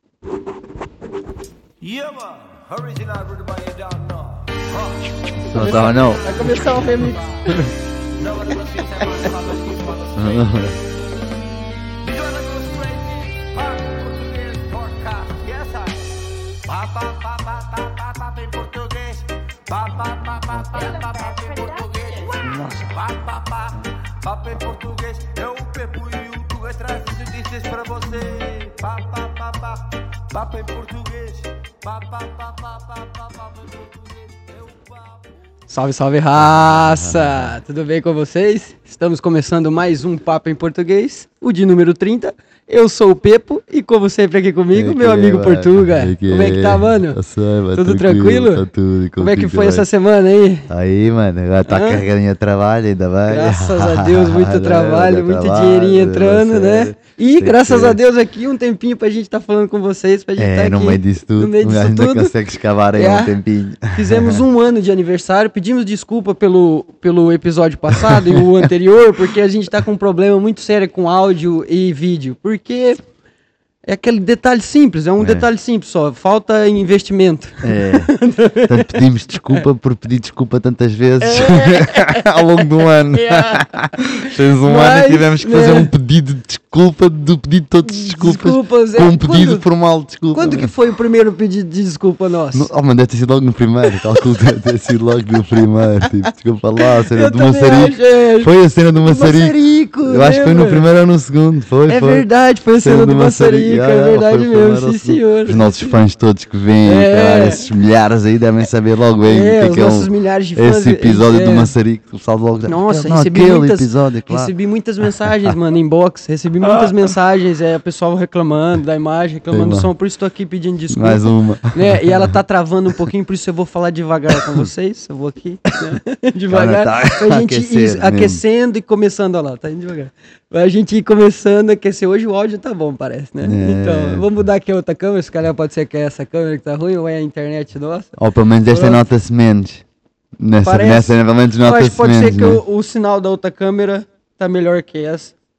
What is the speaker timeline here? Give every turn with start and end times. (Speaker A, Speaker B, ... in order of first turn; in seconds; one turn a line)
Speaker A: 1.8-10.8
Speaker B: 5.4-7.0
Speaker C: 5.4-7.2
Speaker B: 10.1-10.8
Speaker A: 12.0-35.2
Speaker B: 22.4-22.9
Speaker C: 35.7-47.2
Speaker B: 36.4-37.5
Speaker B: 44.7-49.9
Speaker C: 47.7-48.6
Speaker C: 49.2-50.7
Speaker B: 50.7-58.0
Speaker C: 51.7-52.0
Speaker C: 53.2-62.3
Speaker B: 60.4-64.4
Speaker C: 62.9-63.4
Speaker C: 63.9-73.0
Speaker B: 67.9-68.7
Speaker C: 73.8-79.6
Speaker B: 75.2-75.4
Speaker B: 77.6-90.7
Speaker C: 81.2-85.9
Speaker C: 87.9-89.7
Speaker C: 90.3-92.7
Speaker B: 92.5-114.5
Speaker C: 96.8-100.9
Speaker C: 101.9-105.9
Speaker C: 106.8-107.7
Speaker C: 109.2-111.7
Speaker C: 112.7-139.0
Speaker B: 115.3-115.5
Speaker B: 116.6-117.1
Speaker B: 119.5-119.9
Speaker B: 120.9-122.3
Speaker B: 124.3-124.7
Speaker B: 126.5-128.4
Speaker B: 133.4-134.3
Speaker B: 138.2-139.8
Speaker B: 140.4-142.6
Speaker C: 140.6-145.3